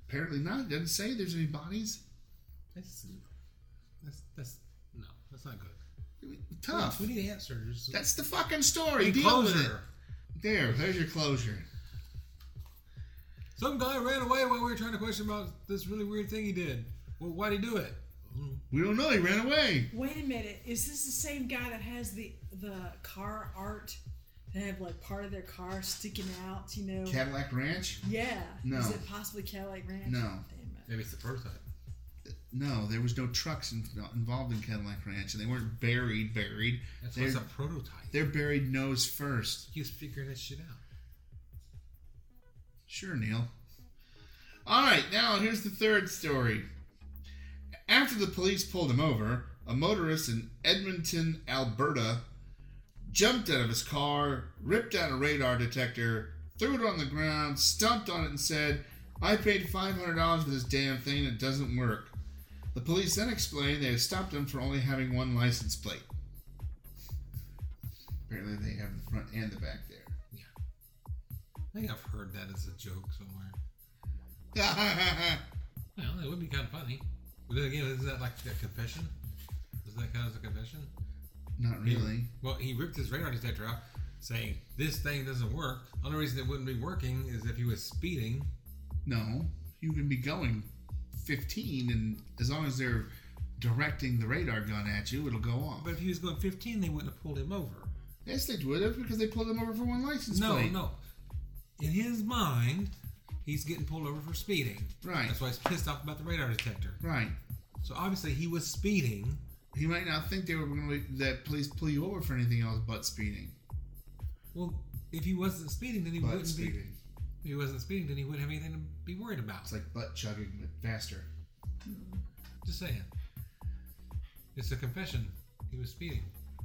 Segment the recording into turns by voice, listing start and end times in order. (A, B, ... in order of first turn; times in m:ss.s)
0:00.1-0:02.0 A
0:02.7-0:03.3 B
0:04.0-0:05.8 B
0:06.2-0:07.1 A
0:06.7-0:08.0 B
0:07.9-0:09.7 A
0:09.0-0:09.9 B
0:10.4-0:11.6 A
0:13.6-0:18.6 B
0:18.7-0:19.9 A
0:19.9-0:24.0 C
0:24.5-0:27.2 C
0:27.0-0:28.1 A
0:28.0-0:30.9 C
0:28.6-0:29.0 A
0:30.0-0:30.4 A
0:30.9-0:31.6 B
0:32.3-0:37.4 A
0:37.0-0:38.3 B
0:38.1-0:39.7 A
0:39.7-0:40.8 B
0:42.9-0:43.5 A
0:44.7-0:46.7 A
0:47.9-0:52.2 A
0:53.1-1:02.2 A
1:02.7-1:06.1 A
1:08.3-1:10.1 A
1:11.7-1:13.6 B
1:14.5-1:15.4 A
1:16.0-1:19.1 B
1:19.8-1:20.9 B
1:21.6-1:22.3 A
1:21.8-1:28.5 B
1:29.0-1:35.9 A
1:35.8-1:37.9 B
1:38.2-1:40.8 A
1:40.3-1:41.0 B
1:41.8-1:47.0 B
1:45.0-1:45.4 A
1:47.0-1:47.4 A
1:47.8-1:49.4 B
1:49.7-1:53.6 A
1:54.5-1:56.8 B
1:56.2-1:57.0 A
1:57.4-1:59.8 B
1:59.7-2:01.3 A
2:01.9-2:02.2 C
2:02.6-2:03.1 B
2:04.6-2:06.3 B